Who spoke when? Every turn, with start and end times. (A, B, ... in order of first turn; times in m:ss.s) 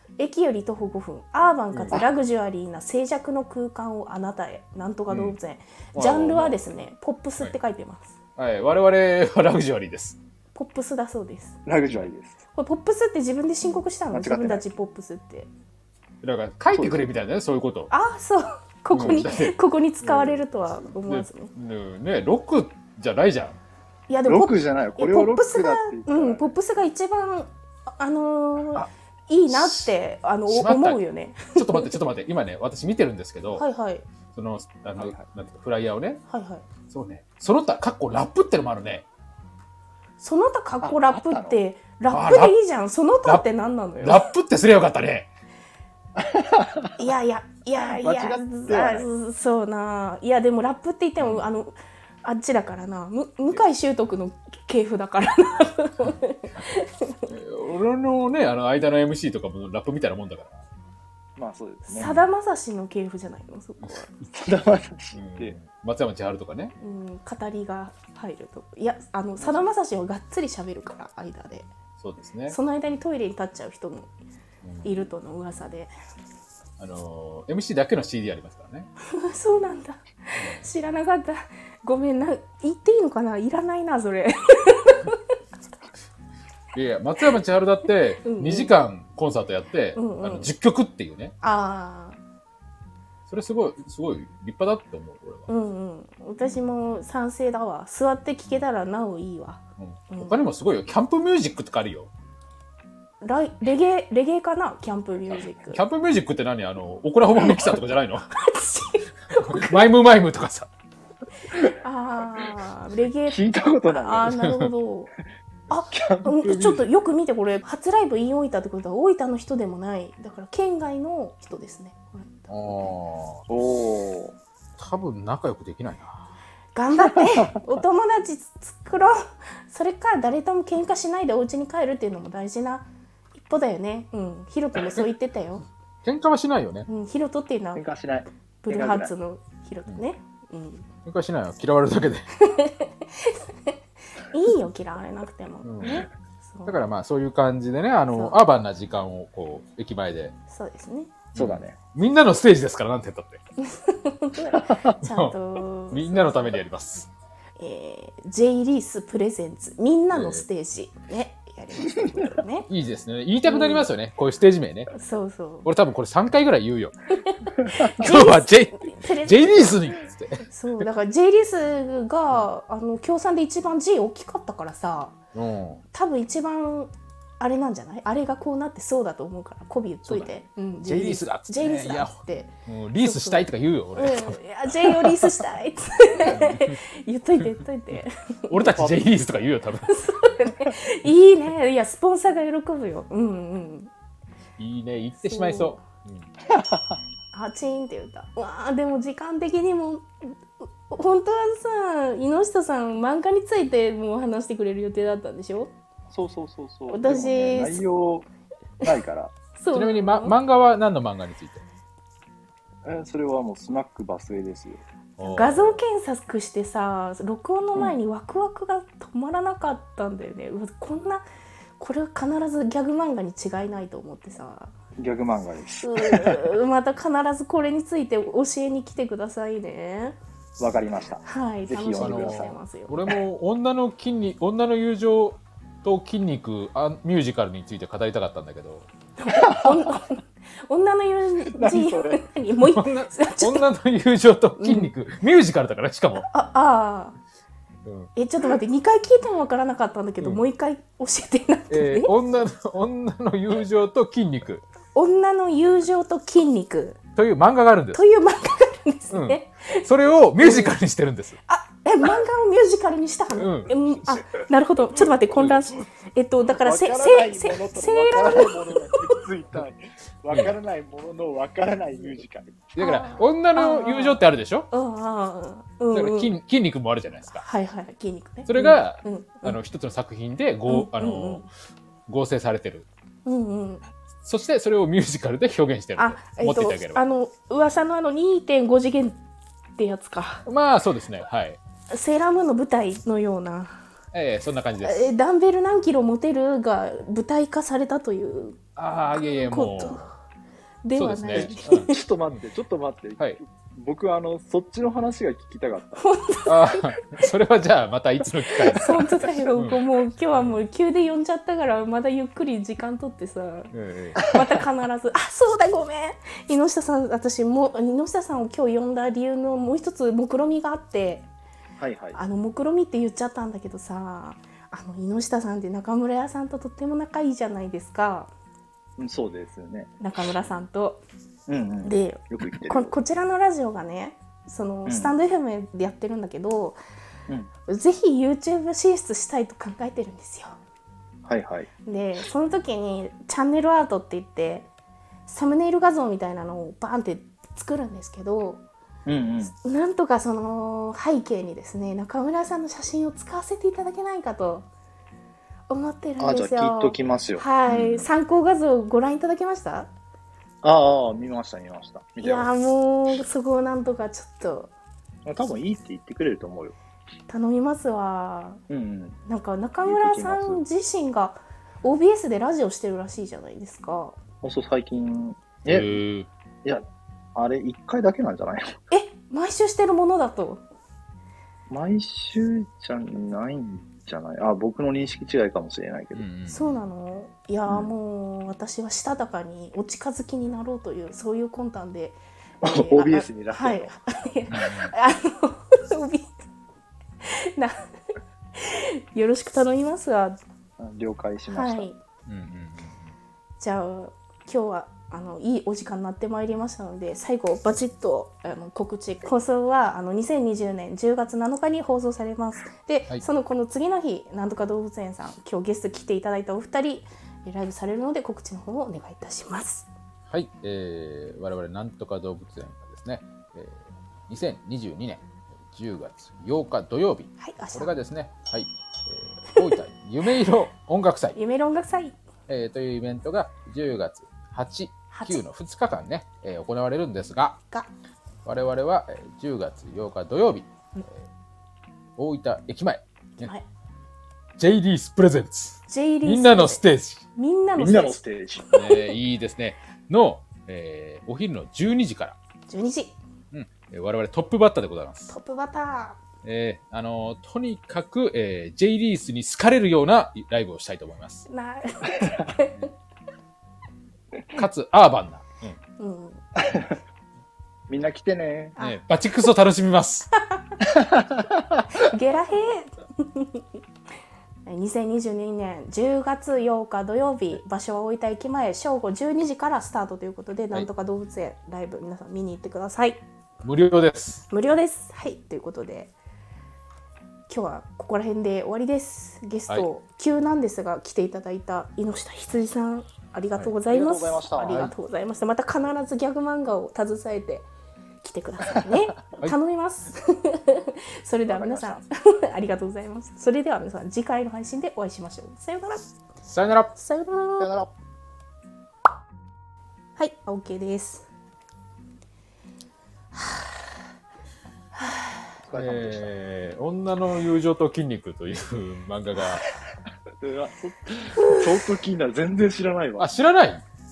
0:00.2-0:08.2 A
0:01.7-0:02.0 B
0:05.1-0:05.4 B
0:05.9-0:06.5 C
0:08.4-0:10.2 B
0:10.5-0:11.6 A
0:11.6-0:12.4 C
0:12.5-0:15.5 A
0:14.1-0:14.6 C
0:16.2-0:17.9 B
0:16.7-0:17.0 C
0:17.9-0:21.5 A
0:18.9-0:20.4 B
0:21.0-0:23.6 B
0:24.1-0:31.9 A
0:24.2-0:26.5 C
0:29.5-0:29.9 B
0:30.5-0:33.6 B
0:33.5-0:34.0 A
0:34.3-0:36.2 B
0:35.0-0:35.2 C
0:36.3-0:36.6 A
0:36.9-0:39.0 B
0:40.2-0:44.2 A
0:40.8-0:41.6 C
0:42.1-0:42.5 B
0:44.0-0:45.3 B
0:46.2-0:46.9 C
0:47.0-0:57.3 A
0:47.9-0:49.1 C
0:51.2-0:51.4 B
0:57.3-1:00.6 B
1:01.4-1:02.1 C
1:01.9-1:04.1 A
1:02.0-1:02.2 B
1:03.8-1:04.3 B
1:04.3-1:05.6 C
1:05.1-1:06.7 B
1:06.8-1:11.7 A
1:12.0-1:12.6 B
1:12.5-1:14.1 A
1:14.6-1:15.0 B
1:14.8-1:15.9 A
1:16.8-1:18.9 B
1:19.1-1:25.2 A
1:20.4-1:20.6 B
1:26.7-1:31.3 B
1:28.2-1:28.7 A
1:30.0-1:30.5 A
1:31.4-1:32.2 A
1:33.3-1:35.5 B
1:35.5-1:40.4 A
1:39.8-1:42.1 B
1:43.2-1:45.8 A
1:45.7-1:48.3 B
1:48.3-1:49.8 A
1:49.4-1:50.7 B
1:51.6-1:55.1 A
1:53.2-1:54.4 C
1:54.3-1:54.7 B
1:55.7-2:02.7 A
1:55.9-1:56.8 C
2:02.5-2:03.5 B
2:03.5-2:04.4 C
2:04.8-2:06.3 B
2:06.7-2:15.6 A
2:07.2-2:07.4 C
2:16.0-2:16.9 B
2:16.9-2:17.8 A
2:17.7-2:19.1 C
2:18.6-2:20.9 A
2:21.0-2:22.3 B
2:22.4-2:26.8 A
2:25.6-2:26.1 B
2:26.6-2:30.3 B
2:28.1-2:28.4 A
2:30.5-2:31.2 A
2:31.3-2:33.4 B
2:31.4-2:31.8 C
2:33.6-2:36.6 A
2:34.5-2:34.8 C
2:34.9-2:35.4 B
2:35.9-2:37.1 B
2:37.6-2:42.7 A
2:40.1-2:40.4 B
2:42.7-2:44.9 B
2:43.4-2:43.9 A
2:44.9-2:45.7 A
2:45.6-2:46.9 B
2:47.2-2:49.7 A
2:47.9-2:50.4 B
2:50.5-2:55.2 A
2:55.3-2:55.8 B
2:55.9-3:08.8 A
3:00.0-3:00.3 B
3:00.8-3:05.4 B
3:06.2-3:06.8 B
3:08.5-3:10.0 B
3:08.7-3:09.1 C
3:09.9-3:13.9 A
3:14.6-3:16.3 B
3:15.2-3:15.8 A
3:16.5-3:17.0 C
3:17.3-3:25.7 A
3:26.1-3:28.3 C
3:26.9-3:27.8 A
3:28.8-3:29.3 C
3:29.6-3:30.3 A
3:29.7-3:31.6 B
3:32.8-3:34.8 C
3:35.2-3:35.8 B
3:35.2-3:41.2 A
3:41.8-3:44.7 A
3:45.0-3:46.5 C
3:45.8-3:50.2 A
3:50.6-3:52.6 C
3:51.2-3:52.9 A
3:52.0-3:58.9 B
3:59.2-4:03.7 A
3:59.4-3:59.9 C
4:01.5-4:02.2 C
4:02.6-4:06.3 B
4:04.6-4:04.9 A
4:06.3-4:07.2 A
4:07.8-4:08.1 B
4:08.2-4:12.1 A
4:11.7-4:14.6 B
4:14.9-4:17.0 A
4:17.2-4:18.0 B
4:17.9-4:19.8 A
4:19.1-4:21.4 B
4:20.4-4:20.8 A
4:21.5-4:29.1 A
4:23.3-4:23.8 B
4:25.4-4:25.6 B
4:26.5-4:32.8 C
4:32.8-4:34.7 B
4:32.8-4:34.2 A
4:34.7-4:36.3 A
4:35.9-4:37.4 B
4:37.3-4:39.6 A
4:38.4-4:41.5 B
4:40.7-4:41.5 A
4:42.1-4:42.9 B
4:43.2-4:43.8 A
4:44.2-4:47.0 B
4:46.0-4:49.2 A
4:49.8-4:50.4 A
4:50.4-4:51.6 B
4:51.9-4:53.8 A
4:54.1-4:55.1 B
4:54.8-4:58.6 A
4:58.8-5:00.1 B
4:59.5-5:00.1 A
5:00.8-5:02.0 A
5:00.9-5:01.9 B
5:01.3-5:06.0 C
5:06.0-5:07.0 A
5:06.5-5:09.8 B
5:08.7-5:21.3 A
5:10.3-5:10.6 B
5:13.7-5:14.2 B
5:21.8-5:22.2 C
5:22.1-5:28.3 A
5:29.0-5:29.9 C
5:30.0-5:31.0 A
5:31.5-5:32.9 C
5:31.8-5:36.8 A
5:34.8-5:35.1 C
5:37.7-5:40.6 A
5:41.2-5:41.7 C
5:41.8-5:44.7 A
5:45.3-5:48.6 A
5:49.0-5:49.5 C
5:49.6-5:54.7 A
5:55.7-5:59.9 A
5:56.2-5:58.1 C
6:00.6-6:02.5 C
6:02.2-6:04.7 A
6:05.2-6:06.8 C
6:07.3-6:08.6 A
6:08.7-6:09.2 C
6:09.2-6:14.2 A
6:09.8-6:10.6 C
6:14.4-6:16.0 C
6:15.7-6:16.3 B
6:17.3-6:18.7 C
6:18.9-6:20.6 A
6:21.7-6:26.2 C
6:26.1-6:26.7 B
6:26.5-6:36.3 A
6:32.6-6:34.0 C
6:34.5-6:34.9 B
6:37.2-6:37.9 A
6:38.5-6:40.4 A
6:40.8-6:41.9 C
6:41.5-6:42.0 A
6:42.3-6:43.1 B
6:43.6-6:59.9 A
7:00.3-7:11.4 B
7:07.4-7:07.9 A
7:11.3-7:12.2 A
7:12.5-7:17.6 B
7:15.1-7:15.4 A
7:18.4-7:21.2 B
7:22.2-7:23.5 B
7:23.4-7:23.6 A
7:24.6-7:27.2 B
7:25.9-7:26.8 A
7:27.4-7:28.2 A
7:27.8-7:28.7 C
7:28.7-7:32.4 B
7:32.7-7:33.2 A
7:33.5-7:35.3 B
7:35.3-7:36.2 A
7:36.4-7:41.5 B
7:41.5-7:42.8 A
7:44.5-7:45.8 B
7:46.0-7:46.4 A
7:46.6-7:47.0 C
7:47.9-7:48.8 C
7:48.8-7:50.3 B
7:50.4-7:50.7 A
7:50.9-7:51.8 C
7:51.9-7:53.6 A
7:54.6-8:03.2 A
8:03.6-8:04.4 B
8:04.5-8:06.1 A
8:07.5-8:17.7 A
8:13.9-8:14.9 C
8:18.2-8:26.1 A
8:21.5-8:22.0 C
8:26.4-8:26.9 B
8:26.9-8:27.7 A
8:27.6-8:27.9 C
8:30.2-8:31.3 A
8:33.4-8:33.6 A
8:35.0-8:35.5 A
8:35.6-8:36.3 C
8:35.7-8:39.7 B
8:40.4-8:43.3 C
8:43.2-8:43.8 B